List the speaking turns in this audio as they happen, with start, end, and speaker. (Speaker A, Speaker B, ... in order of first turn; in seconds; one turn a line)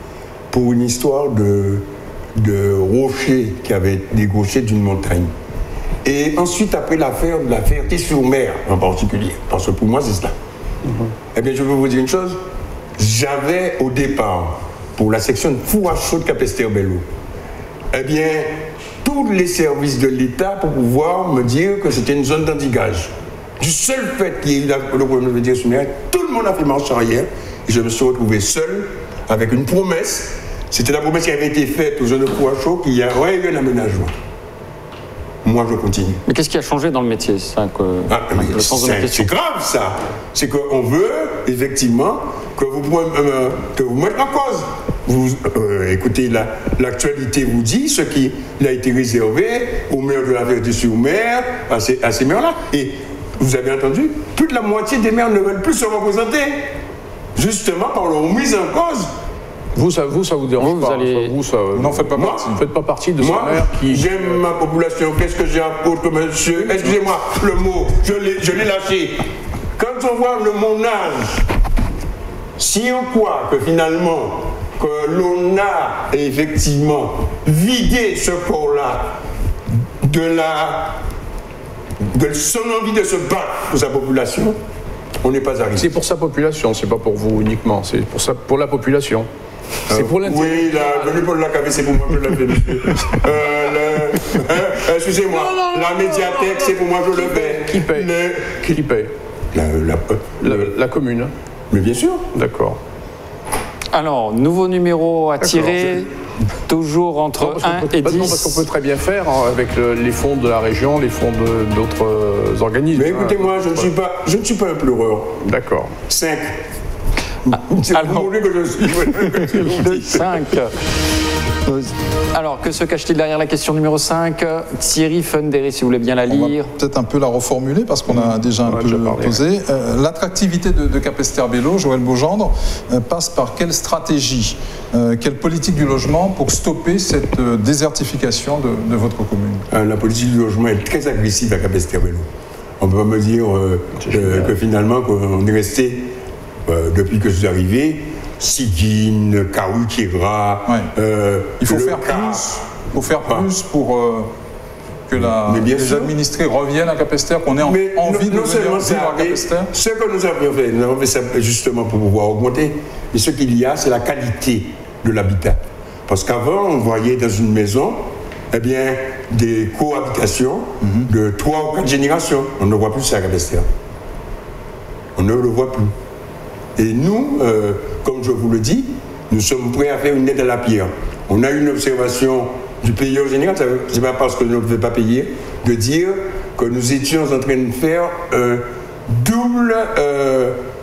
Speaker A: 0.5-5.3
Speaker A: 6.0-10.3
Speaker A: 11.3-12.4
Speaker A: 13.0-17.0
Speaker A: 17.9-18.5
Speaker A: 19.0-34.1
Speaker A: 35.4-36.2
Speaker B: 36.3-39.3
Speaker A: 38.1-56.6
Speaker A: 57.4-59.1
Speaker C: 59.8-64.4
Speaker B: 60.6-61.3
Speaker D: 61.7-62.6
Speaker A: 62.1-62.4
Speaker A: 63.2-69.2
Speaker C: 66.6-67.0
Speaker A: 69.8-71.4
Speaker A: 72.6-79.2
Speaker A: 80.0-81.0
Speaker A: 82.0-84.6
Speaker A: 85.2-85.9
Speaker C: 85.8-89.3
Speaker A: 89.9-98.8
Speaker C: 89.9-91.2
Speaker C: 95.3-98.1
Speaker C: 98.7-99.1
Speaker A: 99.5-100.7
Speaker C: 100.4-101.3
Speaker A: 101.7-102.2
Speaker C: 102.3-102.8
Speaker B: 103.9-106.1
Speaker C: 105.4-105.9
Speaker B: 106.7-108.6
Speaker C: 107.4-113.9
Speaker A: 112.9-115.4
Speaker C: 115.4-116.0
Speaker A: 116.1-116.6
Speaker A: 117.5-120.3
Speaker B: 117.9-118.3
Speaker B: 119.3-120.9
Speaker B: 121.7-126.7
Speaker D: 126.3-139.7
Speaker C: 128.2-129.4
Speaker A: 139.7-142.3
Speaker A: 142.8-146.1
Speaker C: 144.0-144.6
Speaker A: 146.7-152.5
Speaker D: 151.6-154.3
Speaker D: 155.1-159.7
Speaker A: 155.2-156.1
Speaker A: 157.6-173.7
Speaker D: 170.8-171.1
Speaker A: 175.2-175.9
Speaker A: 176.8-190.6